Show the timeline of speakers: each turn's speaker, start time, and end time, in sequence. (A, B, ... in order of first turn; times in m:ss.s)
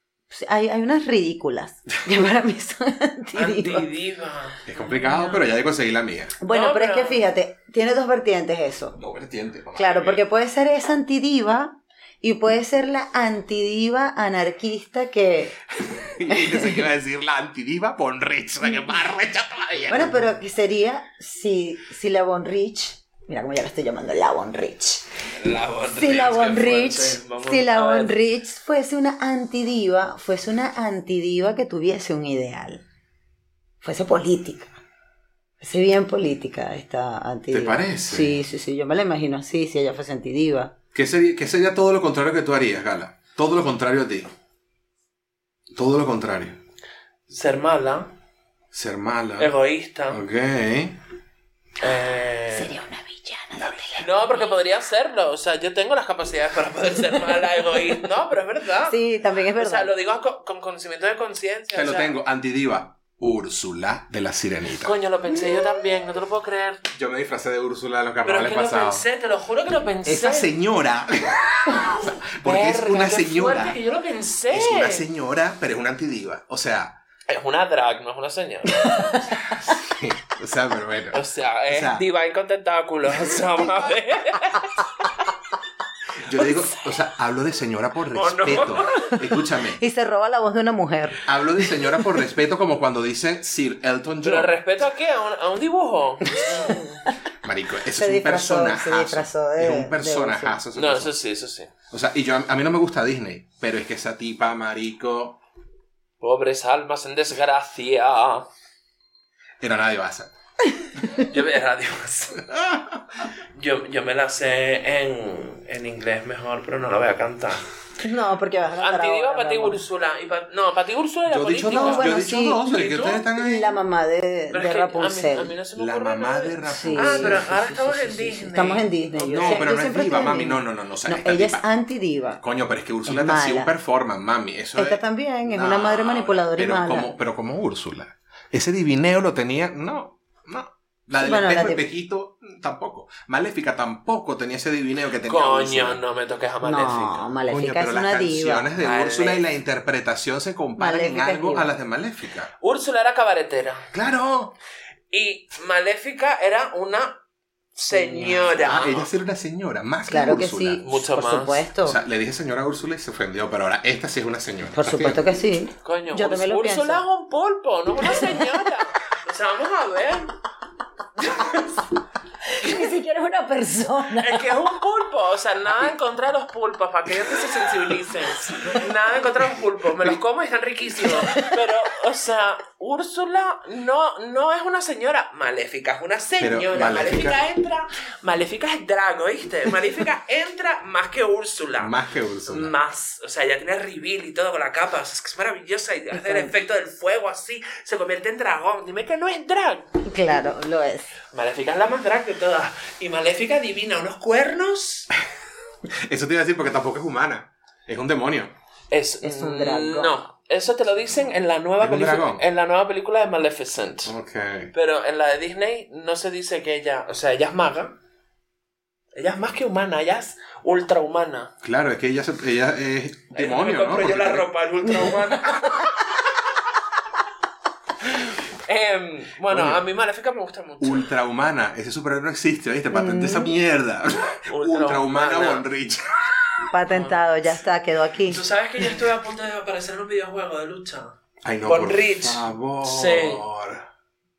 0:00.3-0:03.9 A
0:03.4-0:04.7 B
0:04.7-0:06.4 C
0:04.9-0:05.4 A
0:06.4-0:09.0 A
0:06.5-0:07.3 B
0:09.0-0:10.2 C
0:09.8-0:15.6 A
0:15.9-0:20.3 C
0:16.3-0:16.8 A
0:19.9-0:25.1 A
0:25.3-0:28.2 B
0:25.9-0:32.8 A
0:33.8-0:34.7 A
0:35.6-0:40.7 A
0:37.5-0:38.4 C
0:40.9-0:44.3 C
0:45.8-0:46.6 C
0:47.3-0:48.1 B
0:48.7-0:49.5 C
0:49.4-0:50.2 B
0:50.1-0:51.0 C
0:51.8-0:52.7 B
0:52.5-0:54.2 A
0:53.6-0:54.0 C
0:54.0-0:59.0 B
0:58.9-0:59.9 A
0:59.6-1:02.2 B
1:01.7-1:04.9 C
1:04.8-1:06.8 B
1:06.9-1:09.0 C
1:08.2-1:10.5 B
1:10.0-1:13.8 C
1:12.4-1:15.1 B
1:14.5-1:17.0 C
1:17.3-1:19.2 B
1:19.4-1:22.1 C
1:21.1-1:24.9 B
1:26.2-1:29.8 C
1:28.1-1:29.2 B
1:29.8-1:31.3 A
1:31.2-1:34.5 C
1:34.2-1:37.0 B
1:36.4-1:36.7 A
1:37.4-1:41.2 C
1:38.0-1:40.6 A
1:40.7-1:41.7 B
1:41.9-1:45.4 C
1:46.2-1:48.5 B
1:49.6-1:50.3 C
1:51.2-1:52.5 B
1:52.5-1:53.1 C
1:53.5-1:57.6 B
1:58.0-1:59.8 A
1:58.8-2:03.3 B
2:01.3-2:03.8 C
2:01.7-2:02.6 A
2:03.4-2:05.5 A
2:04.5-2:10.0 B
2:05.8-2:07.5 C
2:06.6-2:12.4 A
2:09.3-2:11.6 C
2:12.4-2:26.0 C
2:13.1-2:13.7 A
2:14.8-2:17.1 A
2:21.2-2:21.9 A
2:25.3-2:27.3 B
2:26.6-2:28.7 A
2:27.5-2:32.5 C
2:28.8-2:29.5 B
2:30.8-2:31.7 A
2:32.6-2:33.9 B
2:33.9-2:34.6 C
2:35.1-2:37.2 B
2:37.8-2:39.1 B
2:37.9-2:38.6 A
2:38.6-2:40.8 C
2:40.1-2:42.0 A
2:40.8-2:41.6 B
2:41.8-2:45.2 C
2:44.8-2:47.0 A
2:45.8-2:50.3 B
2:48.1-2:48.4 A
2:51.3-2:51.6 B
2:52.5-2:54.5 A
2:54.2-3:12.0 B
3:01.0-3:01.5 A
3:06.4-3:07.4 C
3:11.8-3:12.7 C
3:12.5-3:19.9 B
3:16.1-3:16.5 A
3:20.0-3:21.1 A
3:21.3-3:25.1 B
3:25.9-3:28.5 C
3:28.9-3:34.1 B
3:29.2-3:30.2 A
3:31.8-3:32.4 C
3:34.0-3:34.7 C
3:34.7-3:38.0 B
3:39.1-3:41.5 B
3:41.6-3:44.5 C
3:43.3-3:45.9 B
3:48.0-3:51.0 B
3:49.5-3:49.8 C
3:50.8-3:56.2 C
3:52.9-3:53.6 A
3:54.5-3:55.6 B
3:56.7-3:58.4 A
3:56.9-3:57.3 B
3:58.2-4:03.4 B
4:01.4-4:03.8 C